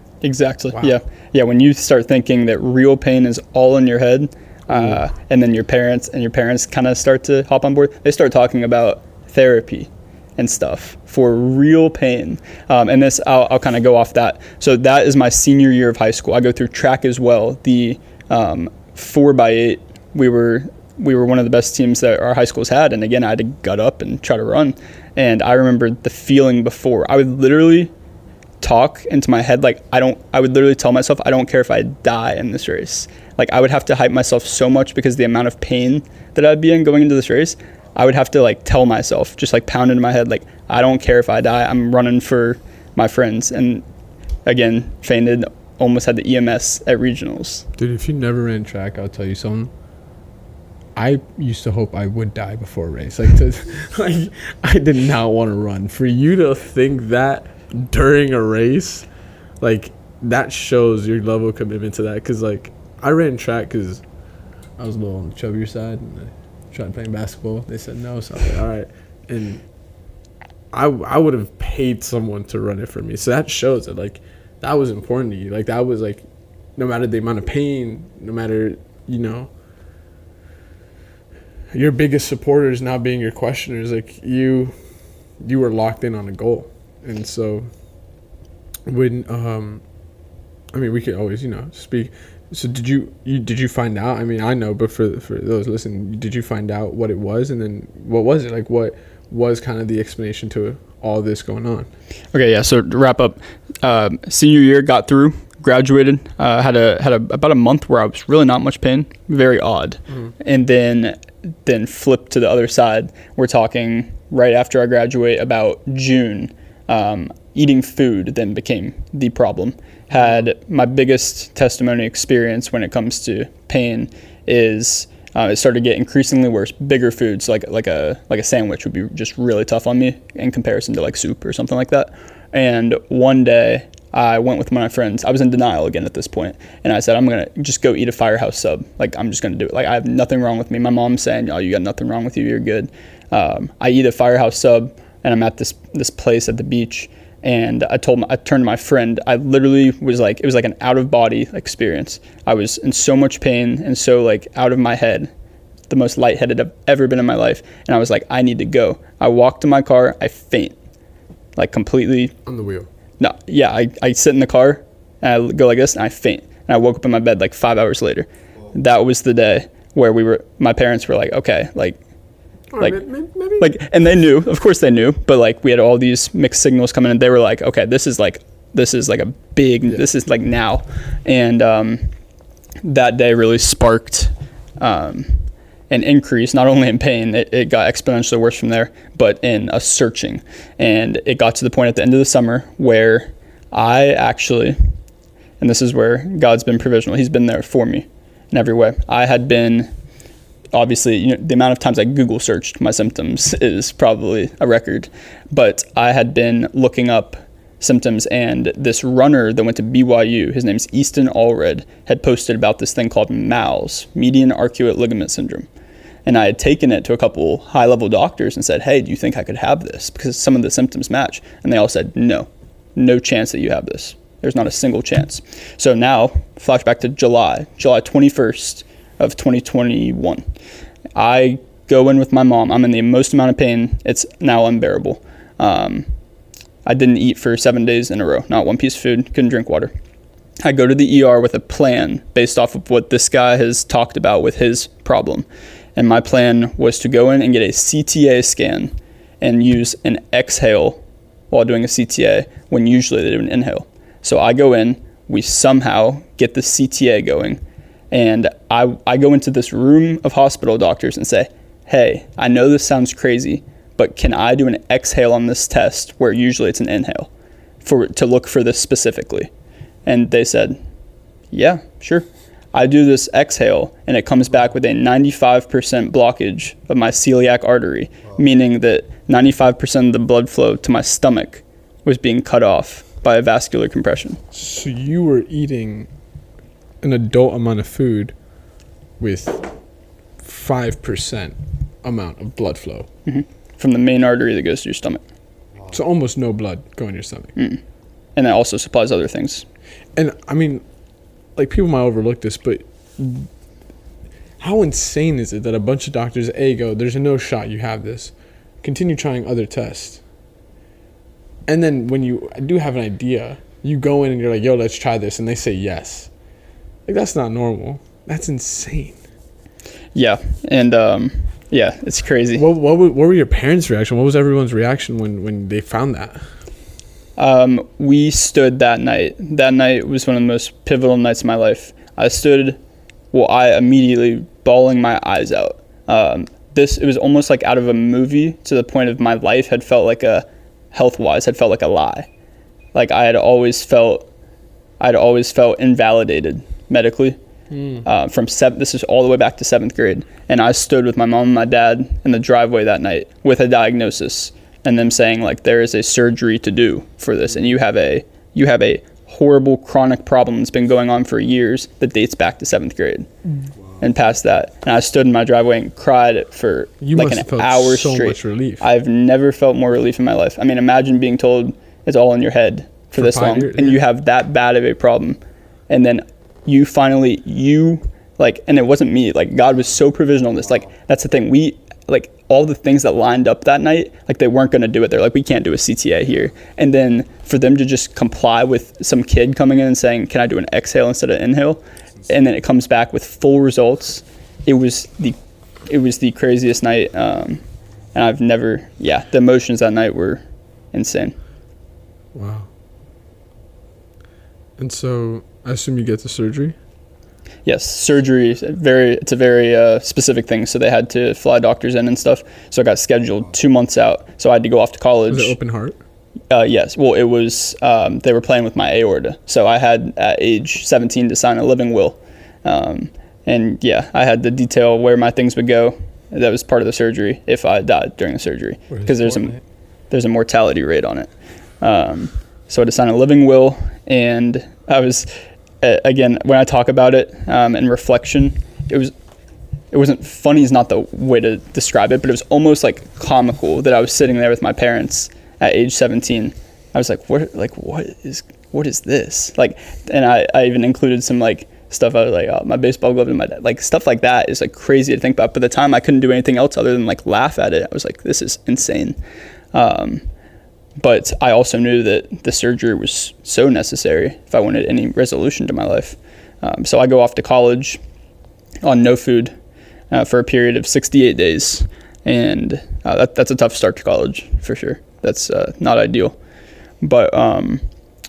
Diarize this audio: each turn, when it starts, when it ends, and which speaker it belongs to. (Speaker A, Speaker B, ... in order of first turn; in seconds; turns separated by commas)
Speaker A: 0.2-27.9, Speaker B: 4.7-5.0, Speaker A: 28.6-43.8, Speaker A: 44.5-47.6, Speaker B: 47.8-49.7, Speaker B: 51.0-59.1, Speaker B: 59.6-64.0, Speaker B: 64.8-69.7, Speaker B: 70.7-76.2, Speaker B: 76.8-79.5, Speaker B: 81.7-84.8, Speaker B: 85.4-87.7, Speaker B: 88.9-89.8, Speaker B: 90.7-101.9, Speaker A: 102.3-155.3, Speaker B: 110.1-110.3, Speaker B: 120.1-120.4, Speaker A: 155.9-160.8, Speaker A: 161.6-162.3, Speaker B: 162.4-162.9, Speaker A: 163.2-172.0, Speaker B: 172.7-173.8, Speaker A: 172.8-173.0, Speaker A: 173.6-182.1, Speaker A: 182.8-194.8, Speaker A: 195.6-199.9, Speaker A: 200.7-215.7, Speaker A: 216.3-230.5, Speaker A: 231.2-236.1, Speaker A: 236.8-239.9, Speaker A: 240.6-257.6, Speaker A: 258.1-267.3, Speaker A: 267.8-269.5, Speaker A: 270.1-270.8, Speaker A: 271.5-284.4, Speaker B: 284.5-286.1, Speaker B: 287.0-288.4, Speaker B: 289.2-289.7, Speaker B: 290.4-293.1, Speaker A: 293.3-295.2, Speaker B: 295.9-297.6, Speaker A: 297.6-297.8, Speaker A: 298.4-299.6, Speaker B: 300.2-300.8, Speaker B: 301.6-303.5, Speaker B: 304.6-310.2, Speaker B: 311.7-316.3, Speaker B: 317.1-319.2, Speaker A: 320.1-322.6, Speaker B: 322.6-326.5, Speaker A: 327.4-332.8, Speaker A: 333.3-342.3, Speaker A: 342.9-344.3, Speaker A: 345.0-347.4, Speaker B: 347.7-348.1, Speaker A: 348.0-363.3, Speaker A: 364.0-401.4, Speaker B: 367.0-368.8, Speaker B: 373.1-374.0, Speaker B: 402.3-402.7, Speaker B: 404.8-406.8, Speaker A: 407.6-415.6, Speaker B: 415.3-416.0, Speaker A: 416.5-429.6, Speaker B: 428.9-429.6, Speaker A: 430.1-439.1, Speaker A: 439.9-459.2, Speaker A: 459.7-460.2, Speaker A: 461.0-468.0, Speaker A: 468.8-469.6, Speaker A: 470.1-476.4, Speaker A: 477.0-477.8